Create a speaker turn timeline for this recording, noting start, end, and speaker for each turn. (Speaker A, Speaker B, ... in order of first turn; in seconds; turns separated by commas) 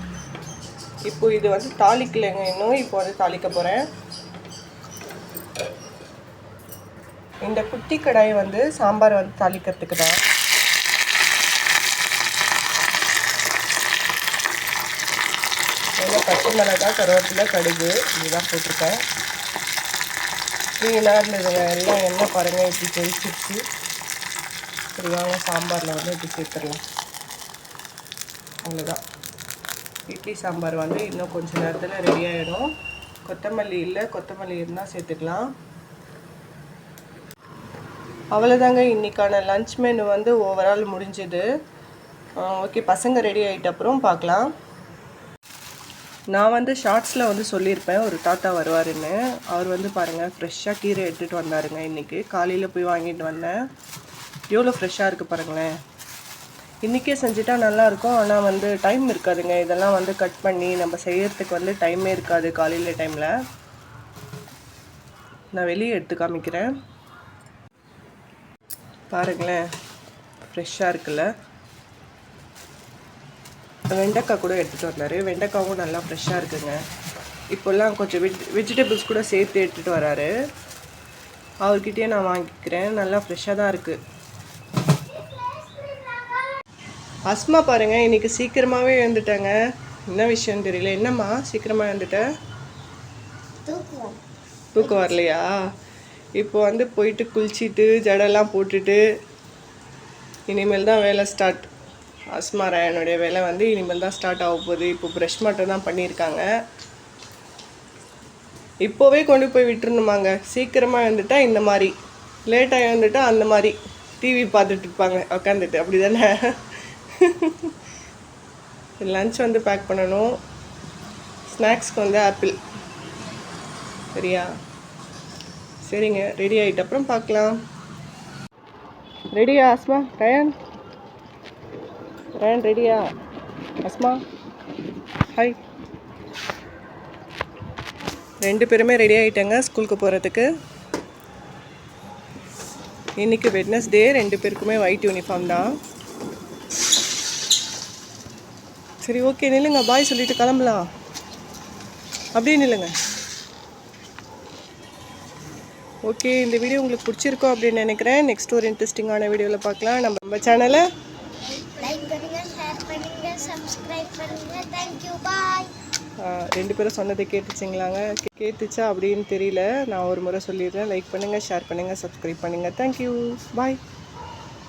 Speaker A: 1.1-3.9, Speaker A: 7.4-10.2, Speaker A: 16.0-19.0, Speaker A: 20.8-23.6, Speaker A: 25.0-26.8, Speaker A: 28.6-29.0, Speaker A: 30.1-32.7, Speaker A: 33.2-35.5, Speaker A: 38.3-41.5, Speaker A: 42.4-44.5, Speaker A: 46.3-53.6, Speaker A: 54.5-55.7, Speaker A: 56.9-63.4, Speaker A: 65.5-66.7, Speaker A: 69.1-69.7, Speaker A: 70.4-71.3, Speaker A: 73.9-76.8, Speaker A: 77.5-80.3, Speaker A: 81.6-84.0, Speaker B: 85.3-86.3, Speaker A: 87.3-89.6, Speaker A: 90.1-92.3, Speaker B: 93.7-94.2, Speaker A: 94.8-95.5, Speaker A: 96.4-99.0, Speaker A: 100.5-101.7, Speaker A: 102.3-106.5, Speaker A: 108.8-111.9, Speaker A: 112.5-117.7, Speaker A: 119.0-120.4, Speaker A: 121.5-122.6, Speaker A: 124.2-124.5, Speaker A: 125.8-127.6, Speaker A: 129.3-130.6, Speaker A: 132.4-133.1, Speaker A: 133.8-134.2, Speaker A: 135.3-135.6, Speaker A: 138.4-140.5, Speaker A: 143.2-145.7, Speaker A: 149.0-150.9, Speaker A: 152.3-152.9, Speaker A: 156.1-160.9, Speaker B: 161.5-165.7, Speaker A: 166.2-173.8